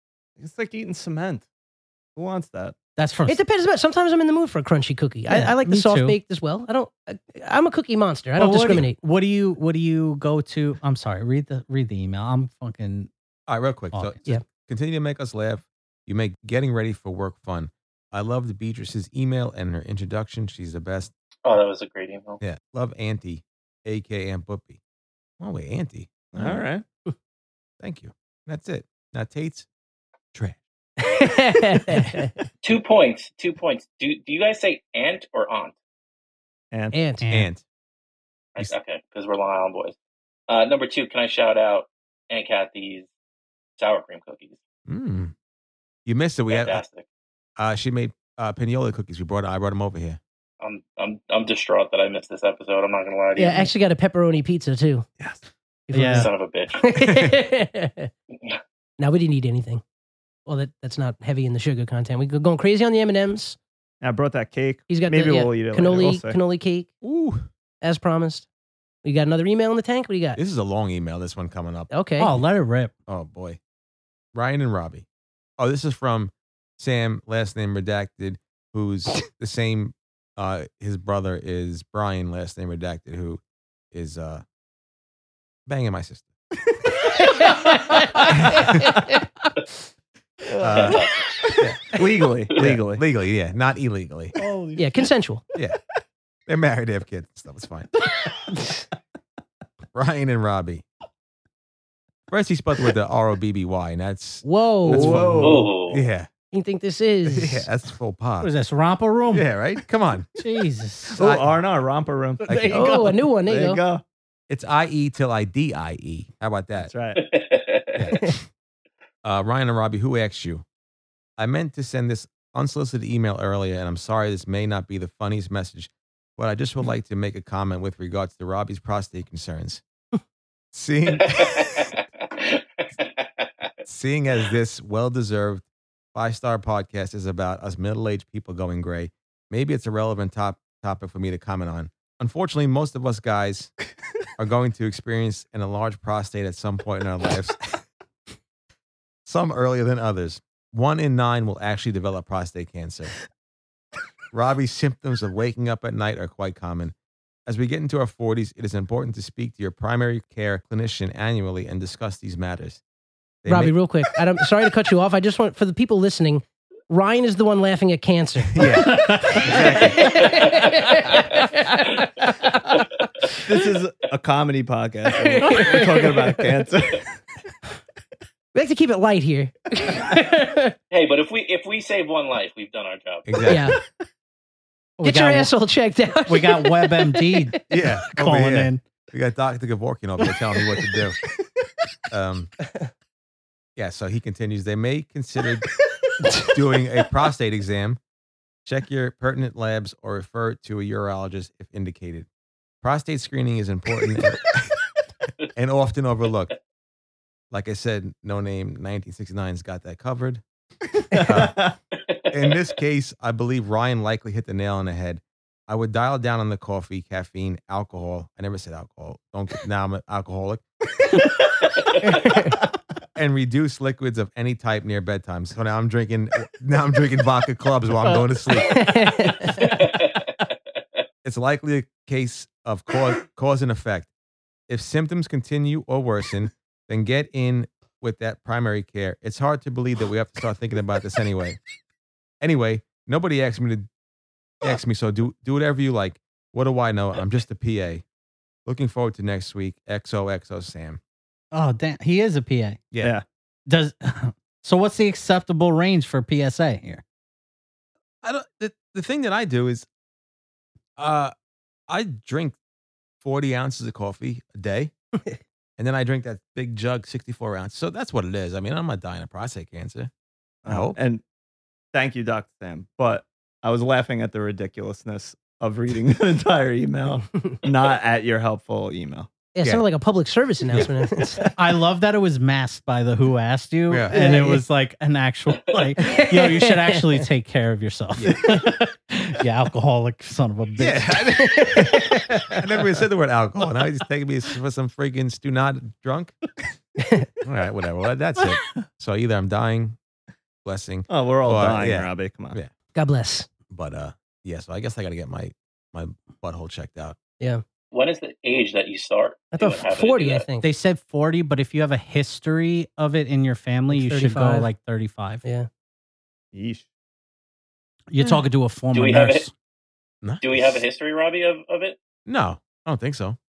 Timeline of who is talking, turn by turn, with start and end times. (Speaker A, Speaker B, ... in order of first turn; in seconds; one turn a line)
Speaker A: 0.4-1.4
Speaker A: 2.1-2.8
Speaker B: 3.0-3.4
Speaker C: 3.3-9.0
Speaker B: 5.3-6.2
Speaker B: 8.4-13.1
Speaker D: 13.5-21.1
Speaker B: 13.9-14.4
Speaker E: 21.4-22.4
Speaker D: 22.4-24.8
Speaker D: 25.4-26.6
Speaker A: 26.3-26.8
Speaker D: 27.8-29.7
Speaker D: 30.3-30.6
Speaker C: 31.0-32.3
Speaker E: 32.6-35.7
Speaker C: 36.9-37.2
Speaker B: 37.2-37.5
Speaker D: 37.3-37.6
Speaker E: 38.5-39.9
Speaker E: 40.5-43.1
Speaker E: 43.8-44.6
Speaker D: 44.9-45.3
Speaker D: 46.0-46.8
Speaker E: 46.5-47.0
Speaker D: 47.6-50.2
Speaker E: 50.6-53.7
Speaker C: 53.4-55.1
Speaker C: 55.9-58.1
Speaker B: 55.9-56.3
Speaker E: 56.1-56.8
Speaker C: 59.0-59.8
Speaker C: 60.5-63.6
Speaker A: 64.0-66.4
Speaker C: 64.9-66.9
Speaker D: 67.0-67.5
Speaker C: 67.8-68.5
Speaker C: 69.0-70.4
Speaker D: 70.3-71.9
Speaker C: 71.9-72.4
Speaker B: 72.2-72.9
Speaker D: 73.1-73.6
Speaker D: 74.3-75.0
Speaker D: 75.6-83.4
Speaker D: 83.9-84.4
Speaker D: 85.7-86.3
Speaker C: 87.1-89.5
Speaker A: 87.9-88.2
Speaker D: 88.3-89.0
Speaker A: 90.5-93.0
Speaker D: 90.6-91.1
Speaker D: 91.6-92.0
Speaker D: 92.5-94.4
Speaker A: 94.4-94.9
Speaker C: 94.8-95.4
Speaker D: 96.5-97.9
Speaker D: 99.9-100.8
Speaker D: 102.3-106.3
Speaker C: 104.4-105.5
Speaker A: 104.8-105.7
Speaker E: 105.4-106.0
Speaker C: 106.5-107.6
Speaker D: 107.3-108.5
Speaker B: 108.4-109.5
Speaker D: 109.3-110.3
Speaker B: 110.4-111.2
Speaker A: 111.1-112.5
Speaker D: 111.1-111.4
Speaker B: 112.4-113.2
Speaker D: 112.5-112.8
Speaker C: 112.7-113.8
Speaker A: 113.5-114.0
Speaker D: 114.5-116.9
Speaker A: 116.8-117.2
Speaker E: 117.2-118.1
Speaker D: 118.0-118.3
Speaker D: 119.2-120.6
Speaker D: 121.4-129.8
Speaker D: 130.7-131.9
Speaker E: 131.2-133.5
Speaker D: 133.8-143.7
Speaker D: 144.3-147.6
Speaker D: 149.2-153.1
Speaker D: 154.3-156.9
Speaker D: 157.5-162.8
Speaker D: 163.4-163.8
Speaker C: 163.5-173.4
Speaker D: 168.5-170.5
Speaker B: 168.8-169.6
Speaker E: 170.2-170.6
Speaker A: 173.4-177.1
Speaker C: 175.2-176.4
Speaker C: 178.5-180.7
Speaker E: 180.9-183.5
Speaker D: 183.3-183.7
Speaker C: 183.5-183.8
Speaker B: 185.0-185.5
Speaker C: 185.0-187.5
Speaker B: 186.3-188.8
Speaker D: 187.7-191.2
Speaker D: 192.1-192.5
Speaker D: 193.8-195.7
Speaker D: 196.4-198.0
Speaker D: 198.7-202.3
Speaker D: 202.8-204.8
Speaker D: 205.5-206.5
Speaker D: 207.5-210.4
Speaker A: 211.1-211.8
Speaker D: 211.2-211.7
Speaker E: 211.9-212.7
Speaker D: 212.3-220.6
Speaker E: 221.6-222.2
Speaker D: 223.2-229.1
Speaker C: 228.6-229.8
Speaker E: 229.6-230.5
Speaker D: 231.2-234.1
Speaker D: 234.7-241.6
Speaker D: 242.4-243.9
Speaker D: 244.6-248.0
Speaker D: 248.7-251.0
Speaker B: 251.5-252.9
Speaker D: 252.9-253.2
Speaker A: 253.0-253.2
Speaker B: 253.7-257.0
Speaker D: 258.2-259.9
Speaker D: 261.0-261.3
Speaker D: 261.9-262.6
Speaker D: 263.2-264.9
Speaker D: 265.8-270.1
Speaker D: 270.6-271.0
Speaker A: 270.6-271.2
Speaker A: 271.9-279.3
Speaker C: 279.5-281.5
Speaker B: 281.5-291.3
Speaker C: 284.1-284.6
Speaker C: 286.0-287.1
Speaker D: 288.1-288.4
Speaker D: 290.8-296.4
Speaker C: 291.4-292.6
Speaker C: 297.0-297.3
Speaker D: 297.4-300.0
Speaker D: 300.6-302.7
Speaker A: 301.1-302.6
Speaker C: 302.9-303.5
Speaker D: 303.7-307.1
Speaker E: 307.9-310.4
Speaker C: 309.5-310.7
Speaker B: 310.6-315.4
Speaker C: 313.9-314.7
Speaker A: 316.5-316.9
Speaker B: 318.1-319.5
Speaker E: 318.9-319.5
Speaker D: 320.2-320.8
Speaker E: 320.4-321.9
Speaker D: 322.3-323.4